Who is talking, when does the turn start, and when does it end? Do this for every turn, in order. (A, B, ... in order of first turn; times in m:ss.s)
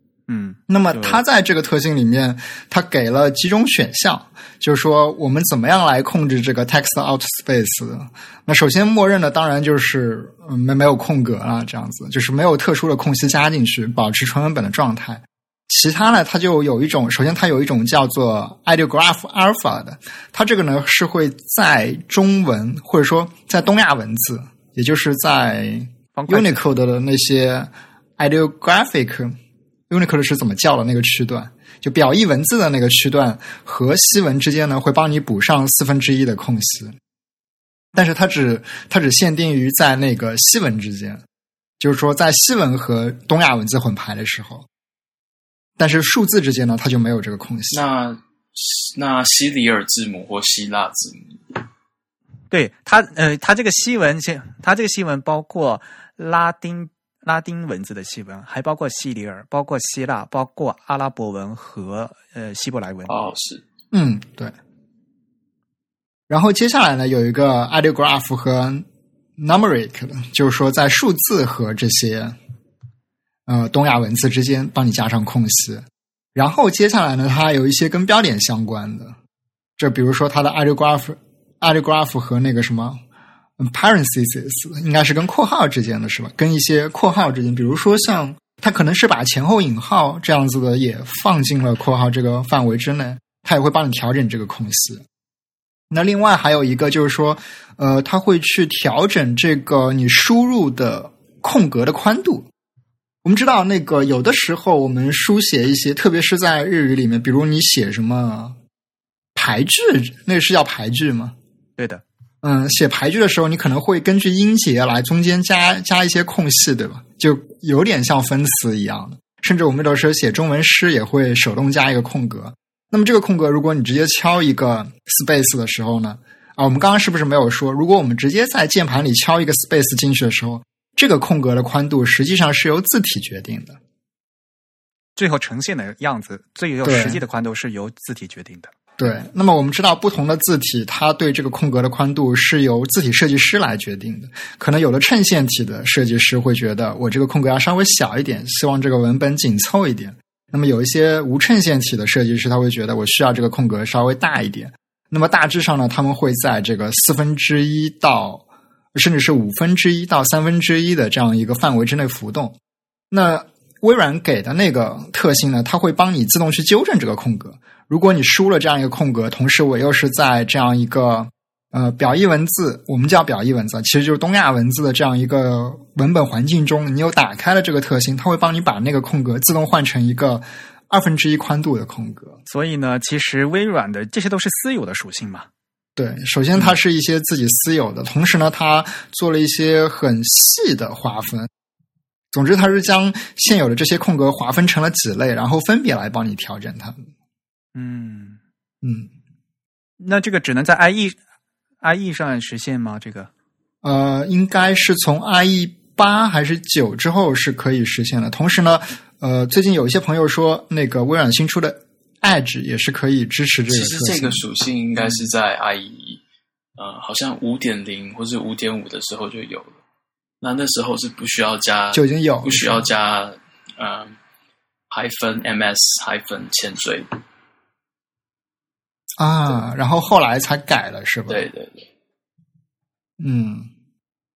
0:00.3-0:01.2 A
0:00.7-0:29.4 B
0:26.2-0:26.7 A
0:29.9-0:37.0 B
0:37.9-0:41.2 B
0:41.8-0:44.6 B
0:45.8-0:47.8 B
0:47.7-0:51.6 C
0:52.5-1:03.1 A
1:03.1-1:03.6 C
1:03.9-1:04.5 B
1:06.3-1:08.8 B
1:09.4-1:12.4 B
1:13.5-1:19.2 B
1:19.8-1:23.0 B
1:23.6-1:35.0 B
1:35.9-1:42.5 B
1:43.2-1:48.6 B
1:49.3-1:51.3 B
1:51.8-1:52.0 A
1:52.4-2:13.8 B
2:15.2-2:18.7 A
2:16.8-2:17.2 B
2:19.0-2:42.6 B
2:43.1-3:02.4 B
3:02.5-3:05.5 A
3:06.0-3:11.5 B
3:12.3-3:17.0 B
3:17.7-3:18.4 A
3:18.8-3:19.1 B
3:20.0-3:21.2 A
3:21.8-3:23.3 A
3:23.8-3:34.4 B
3:33.7-3:36.2 C
3:36.8-3:39.8 C
3:40.4-3:44.1 C
3:41.9-3:42.8 B
3:44.9-3:47.1 C
3:49.2-3:51.4 B
3:51.3-3:51.8 C
3:53.2-3:53.7 B